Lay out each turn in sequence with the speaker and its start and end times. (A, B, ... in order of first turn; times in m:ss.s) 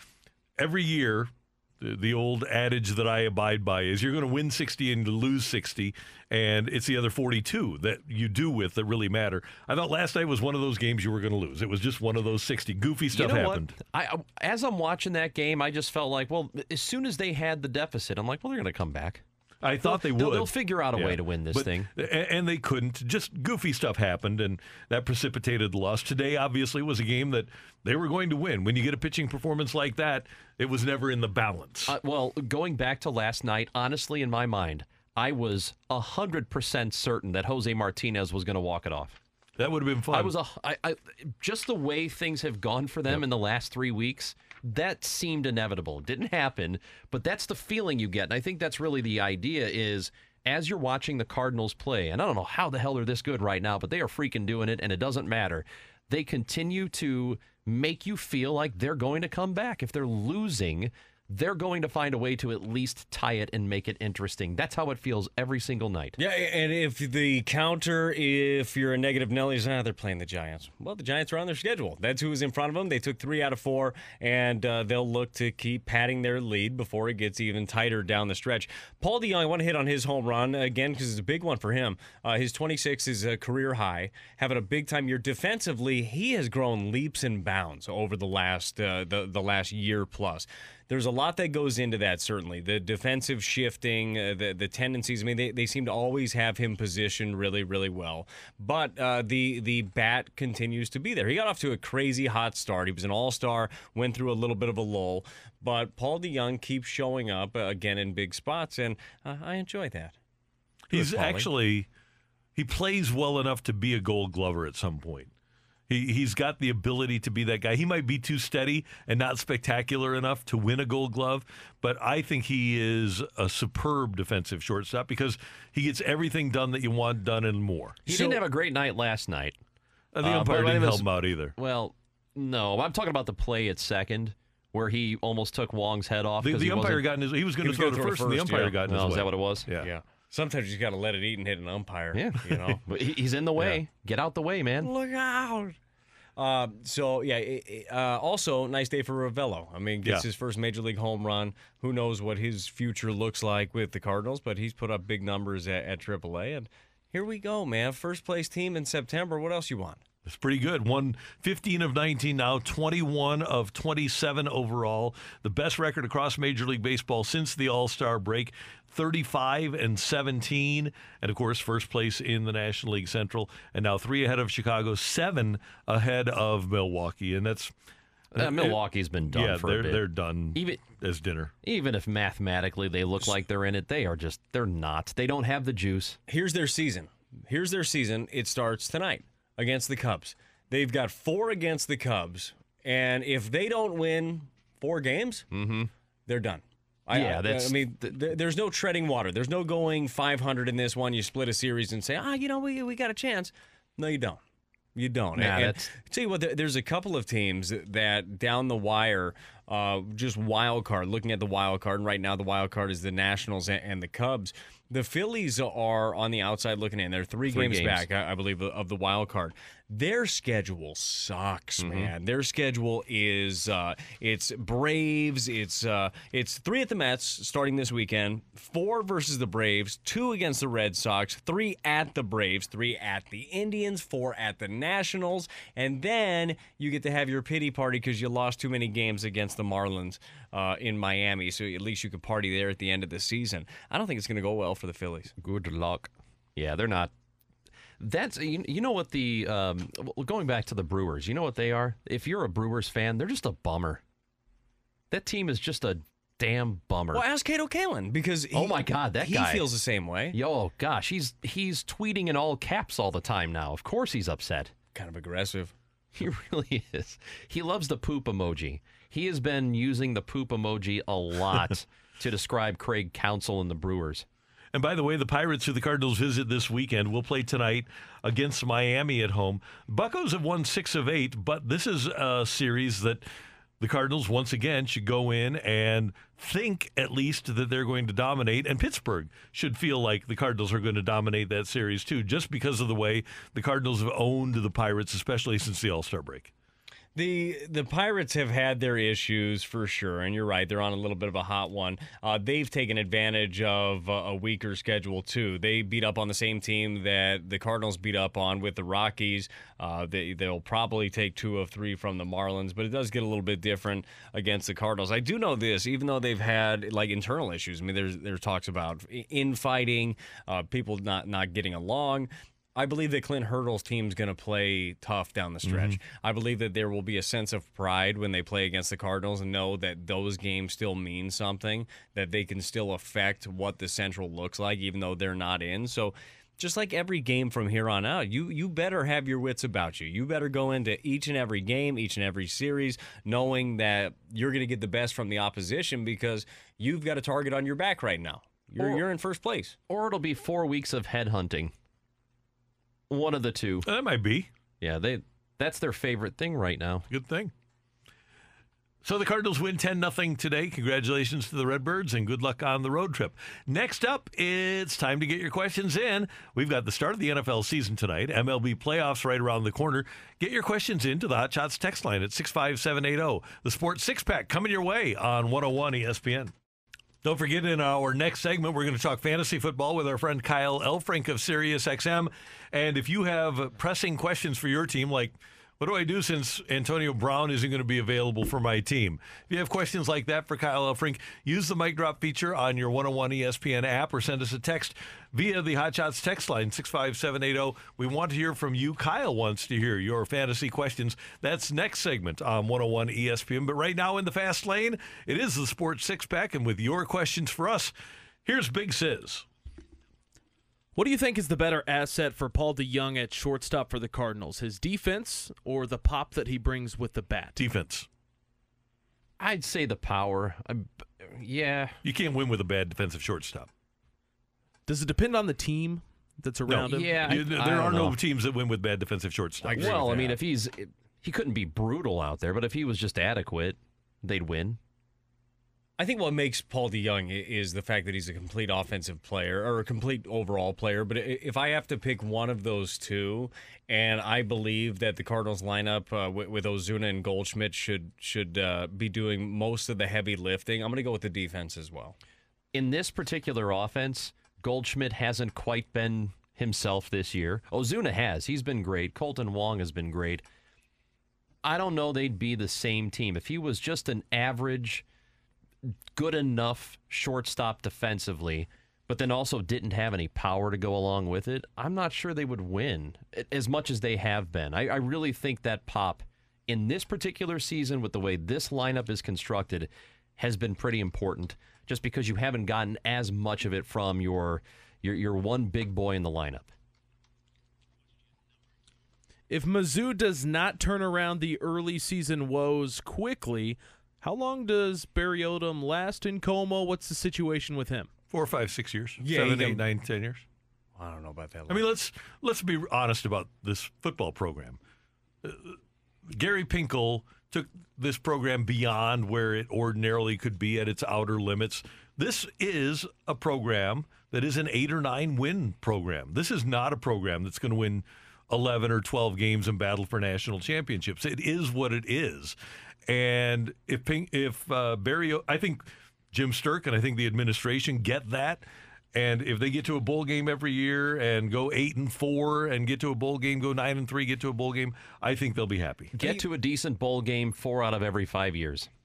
0:00.6-0:13.7 A
0:13.1-0:19.2 B
0:19.6-0:31.9 A
0:19.8-0:21.9 B
0:31.9-0:39.2 B
0:39.6-0:40.3 A
0:40.1-1:06.2 B
1:06.2-1:50.2 C
1:50.9-1:51.9 A
1:50.9-1:51.5 C
1:52.6-1:55.3 A
1:55.9-2:08.3 A
2:08.0-2:09.6 B
2:10.1-2:11.5 A
2:10.2-2:17.0 B
2:16.4-2:19.9 A
2:17.6-2:18.8 C
2:18.8-2:19.7 B
2:19.8-2:22.8 C
2:22.1-2:24.9 B
2:24.8-2:25.8 C
2:26.4-2:40.0 C
2:40.2-2:57.7 A
2:58.3-3:00.0 B
2:58.3-3:01.5 A
3:00.5-3:00.9 B
3:01.6-3:06.2 B
3:06.3-3:15.5 C
3:15.5-3:15.9 B
3:16.3-3:24.4 C
3:17.1-3:18.1 B
3:24.9-4:05.3 C
3:25.4-3:25.9 B
3:37.5-3:38.1 B
3:41.8-3:42.1 B
4:05.4-4:07.1 B
4:08.0-4:14.0 B
4:15.1-4:17.2 B
4:17.1-4:20.4 C
4:18.5-4:19.6 B
4:20.3-4:24.7 B
4:24.9-4:25.7 C
4:26.1-4:34.2 B
4:34.7-4:43.2 A
4:43.8-4:56.5 A
4:57.1-5:49.8 C
5:25.6-5:26.0 A
5:48.8-5:49.0 B
5:49.9-5:51.7 B
5:53.1-5:53.9 B
5:53.8-5:54.5 A
5:54.8-5:57.0 B
5:57.1-5:57.5 A
5:59.0-6:16.5 A
6:17.2-6:47.9 A
6:48.4-6:49.4 A
6:50.9-6:57.6 D
6:57.6-6:58.1 A
6:59.4-7:02.0 B
7:02.0-7:03.7 A
7:04.9-7:07.7 D
7:06.7-7:10.4 A
7:06.8-7:08.2 B
7:09.6-7:10.0 C
7:09.7-7:14.8 B
7:16.0-7:32.2 C
7:32.7-7:40.4 B
7:41.6-7:45.0 B
7:45.8-8:06.7 B
8:09.5-8:18.1 D
8:18.3-8:20.4 A
8:19.2-8:19.8 C
8:21.0-8:21.8 C
8:21.7-8:24.8 A
8:25.4-8:25.8 A
8:26.3-8:42.6 A
8:43.1-8:56.1 A
8:56.1-8:58.9 B